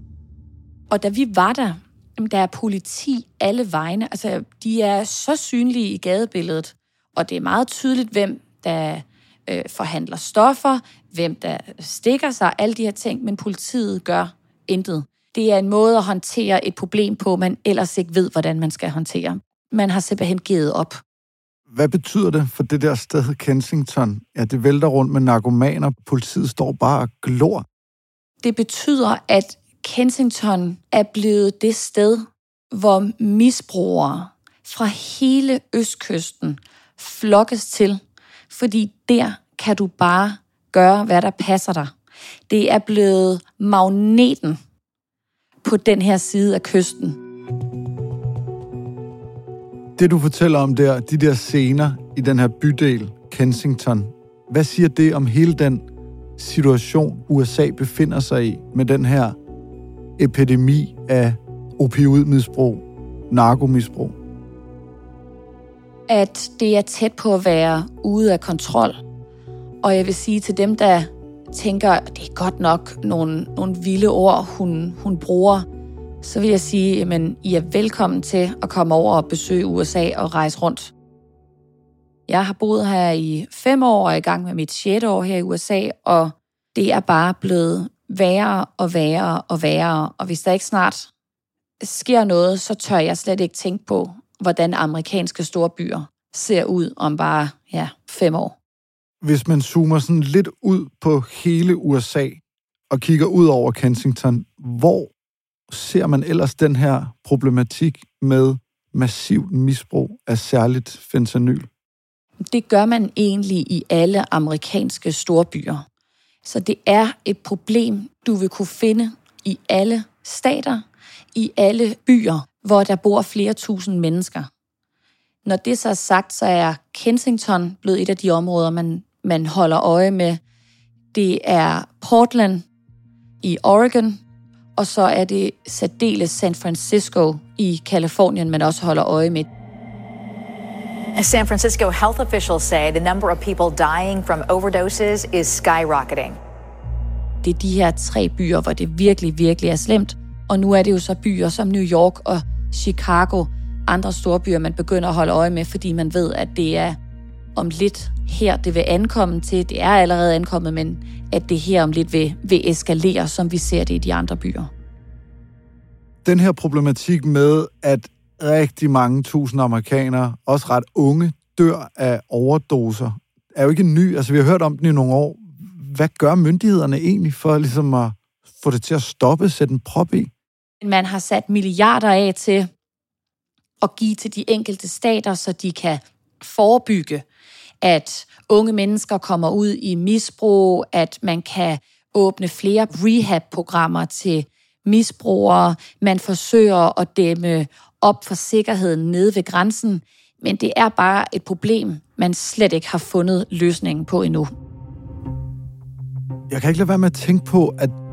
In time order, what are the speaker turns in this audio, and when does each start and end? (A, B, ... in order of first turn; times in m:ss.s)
0:00.9-0:21.0 A
0:21.7-0:27.6 B
0:28.4-0:41.9 A
0:42.5-0:44.6 A
0:45.6-0:47.2 A
0:50.0-0:55.8 B
0:56.4-0:59.4 B
1:00.2-1:04.1 B
1:06.1-1:09.0 A
1:09.8-1:15.6 A
1:16.2-1:20.9 A
1:22.3-1:31.1 A
1:31.8-1:38.6 A
1:39.2-1:45.1 B
1:45.7-1:51.7 B
1:52.4-1:55.8 A
1:56.4-2:00.8 A
2:01.3-2:04.5 A
2:05.4-2:10.4 A
2:11.1-2:12.6 A
2:13.4-2:14.2 A
2:14.8-2:19.5 A
2:21.2-2:26.4 C
2:27.4-2:37.0 A
2:37.5-2:44.7 A
2:46.2-3:00.3 B
3:00.8-3:02.7 A
3:03.8-3:07.2 A
3:07.8-3:24.5 A
3:26.5-3:28.0 B